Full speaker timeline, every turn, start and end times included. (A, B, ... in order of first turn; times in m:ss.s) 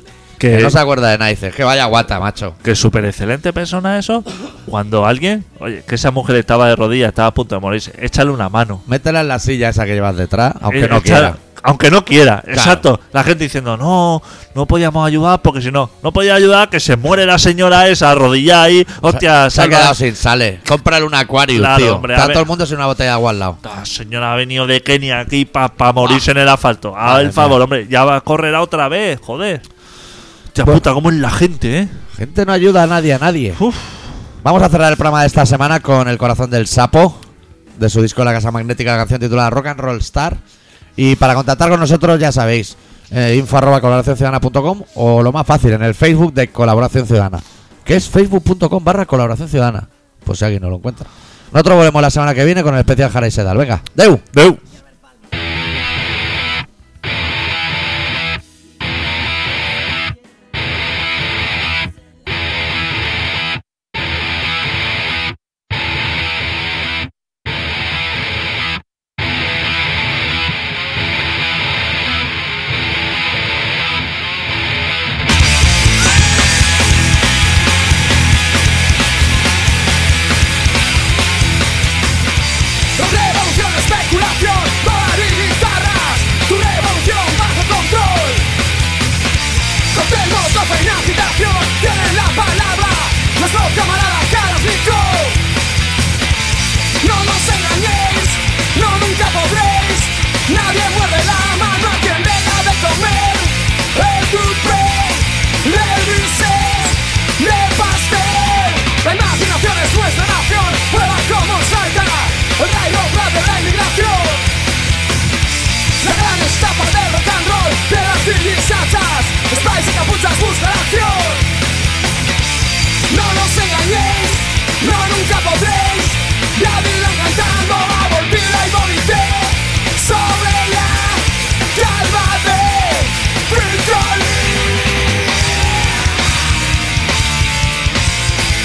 0:00.4-0:00.8 A
0:00.5-0:02.6 B
0:02.6-0:08.8 A
0:08.9-0:11.4 B
0:10.7-0:20.0 A
0:12.5-0:12.8 B
0:19.1-0:23.6 B
0:21.5-0:22.4 A
0:23.6-0:29.6 A
0:27.0-0:27.6 B
0:30.5-0:32.0 A
0:32.1-0:33.6 B
0:33.6-0:34.1 A
0:34.4-0:37.2 B
0:37.8-0:40.4 B
0:41.0-0:54.4 B
0:54.3-0:54.6 A
1:23.0-1:28.5 C
1:29.9-1:35.4 C
1:37.0-1:54.5 C
1:56.0-2:01.5 C
2:03.1-2:14.6 C